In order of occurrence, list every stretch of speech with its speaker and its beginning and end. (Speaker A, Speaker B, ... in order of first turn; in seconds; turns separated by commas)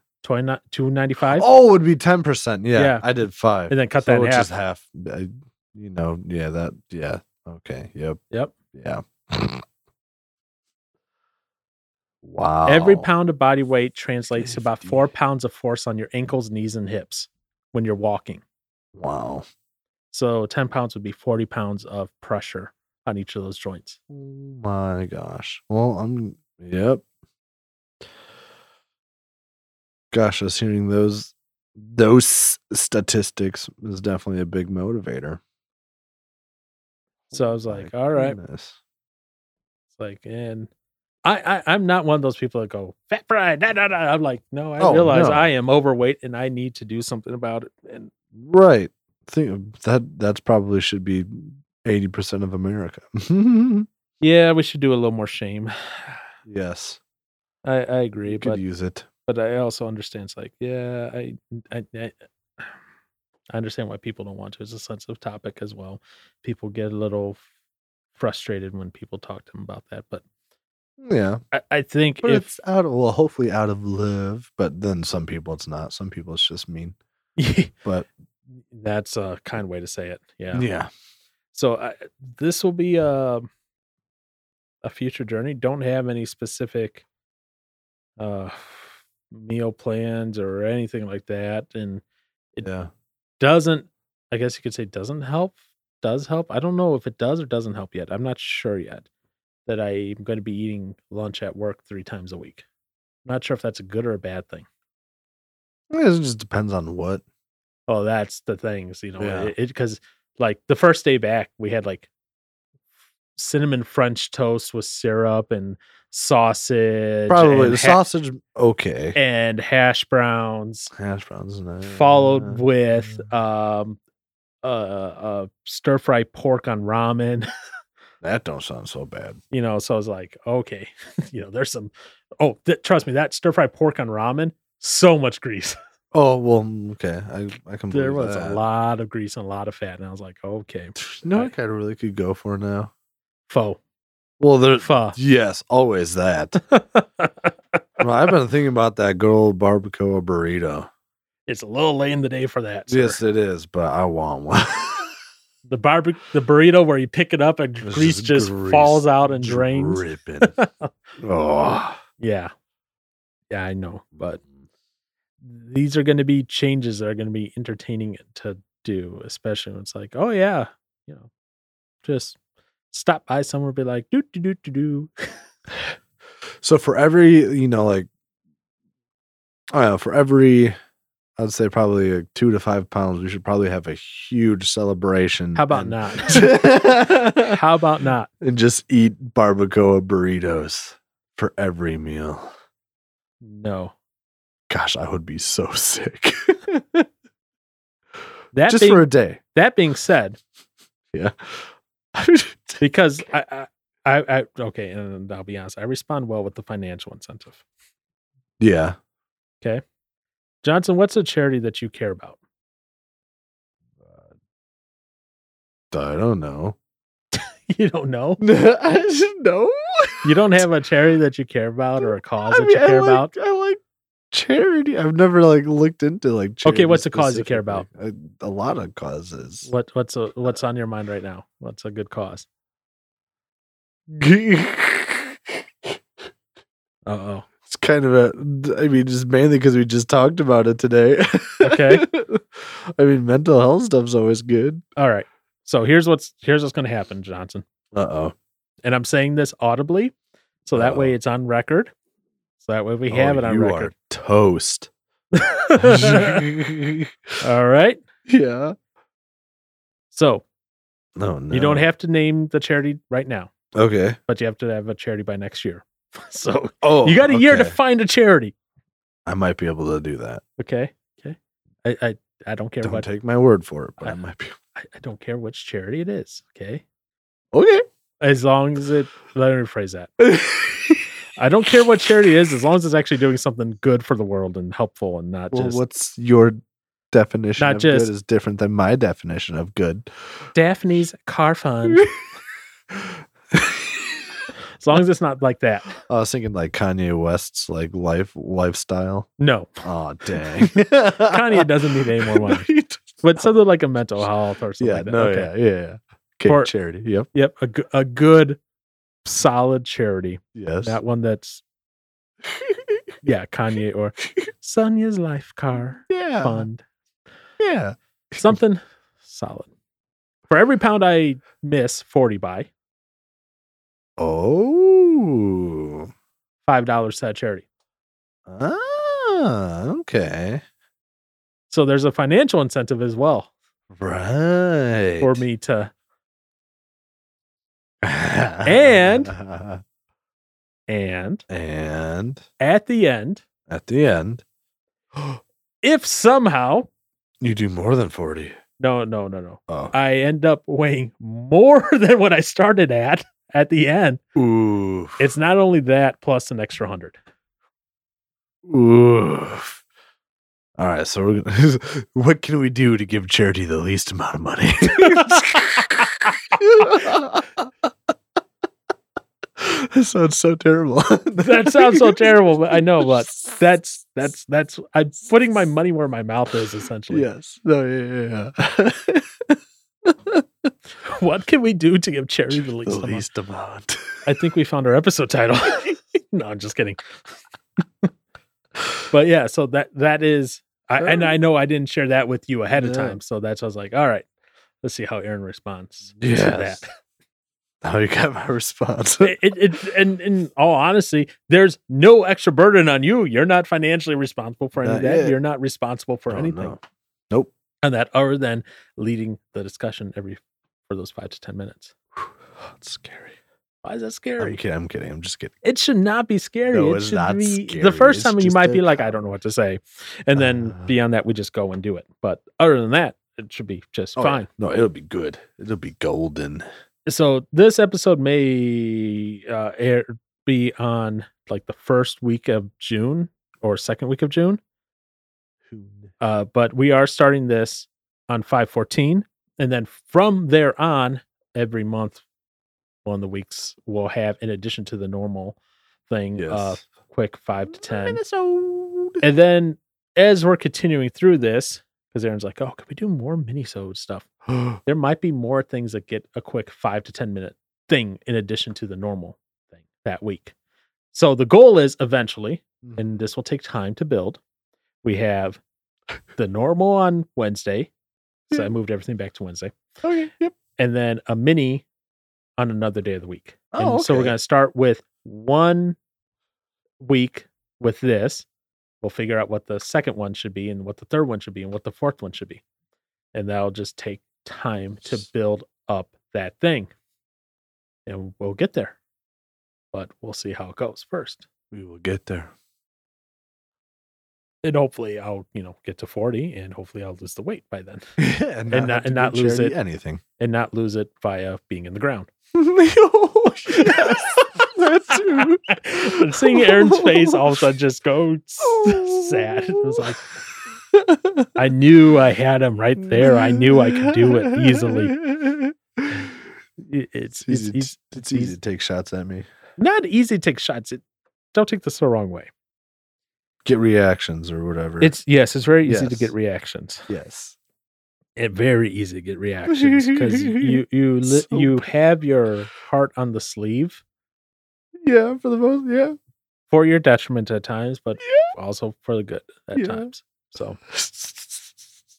Speaker A: 0.2-1.5, Speaker B: 1.2-8.2, Speaker A: 2.7-3.0, Speaker A: 3.7-4.5, Speaker B: 8.7-9.6, Speaker B: 12.2-13.1, Speaker A: 12.7-18.4, Speaker B: 14.3-15.1, Speaker B: 18.9-19.4, Speaker A: 20.1-24.0, Speaker B: 24.1-27.0, Speaker B: 30.1-35.4, Speaker B: 37.3-38.8, Speaker A: 37.3-38.4, Speaker A: 40.0-40.7, Speaker A: 41.2-48.1, Speaker B: 44.8-45.5, Speaker B: 48.3-53.9, Speaker A: 54.2-56.2, Speaker B: 56.5-57.0, Speaker A: 57.6-58.6, Speaker B: 58.2-59.1, Speaker A: 59.3-62.2, Speaker A: 63.5-67.4, Speaker A: 68.1-70.2, Speaker B: 71.0-71.4, Speaker A: 71.5-72.5, Speaker B: 72.2-77.0, Speaker A: 77.4-77.7, Speaker A: 78.7-80.7, Speaker B: 80.5-80.9, Speaker A: 81.5-83.5, Speaker A: 84.8-87.0, Speaker A: 88.2-92.0, Speaker B: 92.6-92.9, Speaker A: 93.4-99.1, Speaker A: 99.7-102.6, Speaker A: 103.2-104.7, Speaker B: 105.9-107.2, Speaker A: 107.9-112.1, Speaker B: 109.2-109.5, Speaker A: 113.3-118.0, Speaker B: 117.3-119.2, Speaker A: 119.1-120.9, Speaker B: 120.9-123.3, Speaker A: 121.8-124.0, Speaker A: 124.6-127.5, Speaker B: 128.2-129.4, Speaker A: 129.5-135.8, Speaker B: 136.1-138.6, Speaker A: 137.9-141.5, Speaker B: 141.0-142.9, Speaker A: 143.5-143.8, Speaker B: 144.4-146.6, Speaker A: 144.8-145.2, Speaker A: 146.6-147.5, Speaker B: 148.0-150.9, Speaker A: 151.5-153.2, Speaker B: 152.9-155.1, Speaker A: 155.7-160.9, Speaker B: 157.8-160.5, Speaker B: 161.2-162.0, Speaker A: 162.2-162.5, Speaker A: 163.5-164.4, Speaker B: 164.2-164.6, Speaker A: 165.4-171.3, Speaker A: 172.0-172.4, Speaker A: 172.9-175.1, Speaker B: 176.6-178.1, Speaker B: 179.7-180.7, Speaker B: 181.4-187.6, Speaker A: 185.5-186.7, Speaker A: 187.3-188.3, Speaker B: 188.4-192.5, Speaker A: 193.4-193.9, Speaker B: 194.7-197.1, Speaker A: 198.5-200.4, Speaker B: 198.7-199.4, Speaker B: 201.1-202.8, Speaker A: 202.8-207.6, Speaker B: 208.6-209.0, Speaker A: 210.6-212.4, Speaker B: 214.0-214.3, Speaker B: 215.9-216.8, Speaker A: 217.3-218.4, Speaker B: 218.4-220.6, Speaker A: 220.2-223.3, Speaker B: 222.0-223.8, Speaker B: 224.3-229.7, Speaker A: 226.6-227.9, Speaker A: 229.6-232.4, Speaker B: 234.1-235.9, Speaker A: 237.1-237.5, Speaker B: 237.7-244.8, Speaker A: 241.6-242.1, Speaker A: 245.0-247.6, Speaker B: 247.9-248.3, Speaker A: 248.8-250.1, Speaker A: 250.6-251.9, Speaker B: 250.7-251.1, Speaker A: 252.6-253.9, Speaker B: 253.1-254.9, Speaker A: 255.3-256.4, Speaker B: 255.8-257.1, Speaker A: 257.4-258.0, Speaker B: 258.3-258.8, Speaker A: 260.1-260.4, Speaker B: 261.1-261.9, Speaker A: 261.5-263.5, Speaker B: 263.7-264.2, Speaker A: 264.3-268.5, Speaker B: 266.8-267.8, Speaker B: 269.2-270.4, Speaker A: 270.6-273.1, Speaker B: 272.8-274.5, Speaker A: 274.8-276.8, Speaker B: 277.5-277.8, Speaker A: 278.2-280.1, Speaker B: 280.2-281.0, Speaker A: 281.4-285.8, Speaker B: 285.5-286.6, Speaker B: 287.1-290.1, Speaker A: 287.6-288.1, Speaker A: 290.5-292.1, Speaker B: 292.9-294.4, Speaker A: 294.8-296.0, Speaker B: 296.1-299.3, Speaker A: 299.4-299.7, Speaker B: 299.8-303.5, Speaker A: 300.4-302.7, Speaker A: 303.2-305.5, Speaker B: 304.8-307.3, Speaker A: 306.4-306.7, Speaker A: 307.3-308.6, Speaker A: 309.2-311.6, Speaker B: 310.5-311.0, Speaker B: 312.4-313.0, Speaker A: 313.2-316.8, Speaker B: 316.1-316.6, Speaker B: 317.6-318.6, Speaker A: 318.4-319.7, Speaker A: 320.5-322.7, Speaker B: 324.2-326.1, Speaker A: 326.6-327.6, Speaker B: 328.4-330.6, Speaker A: 331.7-333.5, Speaker B: 333.9-335.4, Speaker A: 335.2-335.9, Speaker B: 338.0-339.8, Speaker A: 338.6-339.3, Speaker A: 340.9-341.4, Speaker B: 341.5-342.4, Speaker A: 342.6-343.4, Speaker B: 343.7-344.4, Speaker A: 345.8-346.9, Speaker B: 347.4-348.5, Speaker A: 348.8-354.2, Speaker B: 349.7-349.9, Speaker B: 354.4-355.2, Speaker A: 355.2-357.2, Speaker B: 358.6-359.8, Speaker B: 360.8-367.7, Speaker A: 365.0-365.6, Speaker B: 369.6-373.6, Speaker A: 371.4-377.3, Speaker B: 377.1-380.4, Speaker A: 381.0-383.2, Speaker B: 382.5-384.3, Speaker A: 384.2-387.0, Speaker A: 389.1-394.2, Speaker B: 391.0-391.3, Speaker B: 392.7-393.2, Speaker A: 394.8-396.9, Speaker B: 396.2-396.8, Speaker B: 397.8-399.4, Speaker A: 399.2-406.8, Speaker B: 404.8-405.4, Speaker B: 406.3-407.5, Speaker A: 407.8-411.9, Speaker B: 412.2-413.4, Speaker A: 413.8-414.6, Speaker B: 414.4-415.5, Speaker A: 415.6-424.5, Speaker B: 416.7-419.2, Speaker B: 420.4-420.9, Speaker B: 424.1-426.6, Speaker A: 427.1-434.6, Speaker B: 435.7-436.1, Speaker A: 436.2-442.2, Speaker A: 443.0-445.6, Speaker A: 446.1-448.2, Speaker B: 446.4-446.8, Speaker B: 447.7-449.2, Speaker A: 449.2-460.5, Speaker B: 454.5-454.8, Speaker A: 461.1-464.4, Speaker B: 462.8-463.1, Speaker A: 465.0-465.6, Speaker A: 466.4-467.9, Speaker A: 468.5-469.7, Speaker B: 470.0-470.5, Speaker A: 470.8-471.8, Speaker A: 472.6-476.0, Speaker B: 473.7-474.4, Speaker A: 477.0-478.4, Speaker A: 479.0-482.6, Speaker A: 483.3-486.9, Speaker A: 488.1-489.0, Speaker A: 489.9-491.5, Speaker B: 491.7-492.5, Speaker A: 494.6-498.0, Speaker B: 498.2-500.2, Speaker A: 498.7-499.8, Speaker A: 500.4-502.3, Speaker B: 502.5-507.6, Speaker A: 503.7-504.3, Speaker A: 505.1-510.2, Speaker B: 508.6-510.2, Speaker B: 510.9-511.5, Speaker A: 511.6-515.1, Speaker B: 513.0-516.3, Speaker A: 516.8-518.5, Speaker B: 517.4-519.5, Speaker A: 519.8-521.0, Speaker A: 521.5-522.5, Speaker B: 523.6-525.1, Speaker A: 525.0-527.1, Speaker B: 525.8-526.3, Speaker B: 527.1-527.5, Speaker A: 528.4-534.0, Speaker B: 529.7-531.9, Speaker B: 535.0-536.1, Speaker A: 536.7-540.8, Speaker B: 538.2-538.5, Speaker B: 539.7-540.1, Speaker B: 540.9-541.8